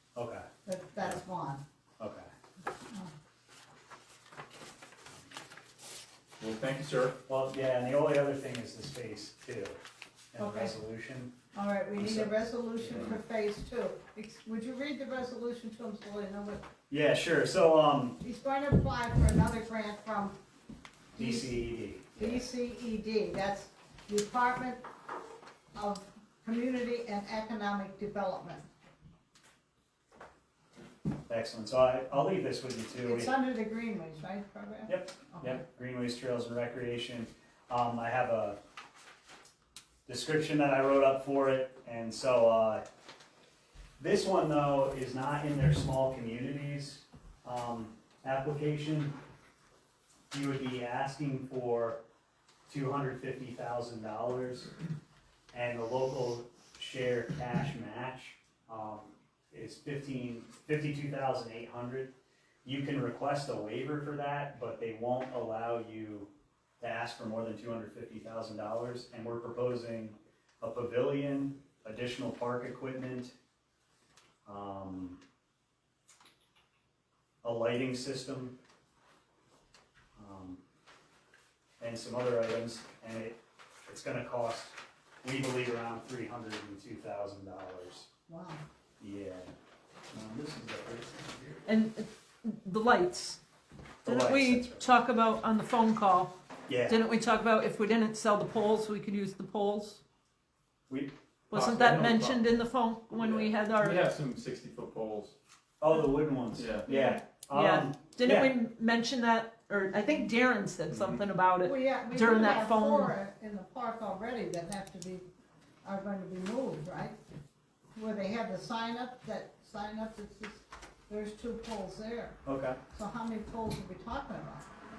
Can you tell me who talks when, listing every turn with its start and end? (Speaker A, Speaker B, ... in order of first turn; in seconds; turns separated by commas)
Speaker A: 0.1-0.5, Speaker B: 0.7-1.6, Speaker A: 2.0-2.3, Speaker C: 6.4-7.2, Speaker A: 7.3-9.8, Speaker A: 10.3-11.3, Speaker B: 10.4-10.7, Speaker B: 11.6-16.6, Speaker A: 12.0-13.1, Speaker A: 16.9-18.2, Speaker B: 18.2-20.4, Speaker B: 21.1-21.6, Speaker A: 21.2-22.4, Speaker B: 22.2-24.8, Speaker B: 25.8-28.7, Speaker A: 31.3-33.3, Speaker B: 33.0-35.6, Speaker A: 34.9-38.6, Speaker A: 40.1-42.8, Speaker A: 44.0-49.2, Speaker A: 50.3-52.0, Speaker A: 52.7-54.7, Speaker A: 55.5-62.1, Speaker A: 62.6-66.3, Speaker A: 66.8-73.3, Speaker A: 74.5-75.2, Speaker A: 77.4-78.6, Speaker A: 80.2-80.6, Speaker A: 81.8-88.1, Speaker B: 88.3-88.6, Speaker A: 89.0-89.5, Speaker A: 90.1-91.6, Speaker D: 91.7-93.4, Speaker A: 94.0-94.8, Speaker D: 94.0-96.3, Speaker A: 96.7-97.0, Speaker D: 96.9-100.0, Speaker D: 101.5-104.1, Speaker C: 101.5-102.4, Speaker C: 103.2-105.3, Speaker A: 105.8-108.5, Speaker C: 106.6-106.9, Speaker D: 106.9-113.1, Speaker B: 111.6-115.2, Speaker B: 115.8-117.2, Speaker B: 118.0-122.4, Speaker A: 122.5-122.8, Speaker B: 122.9-124.7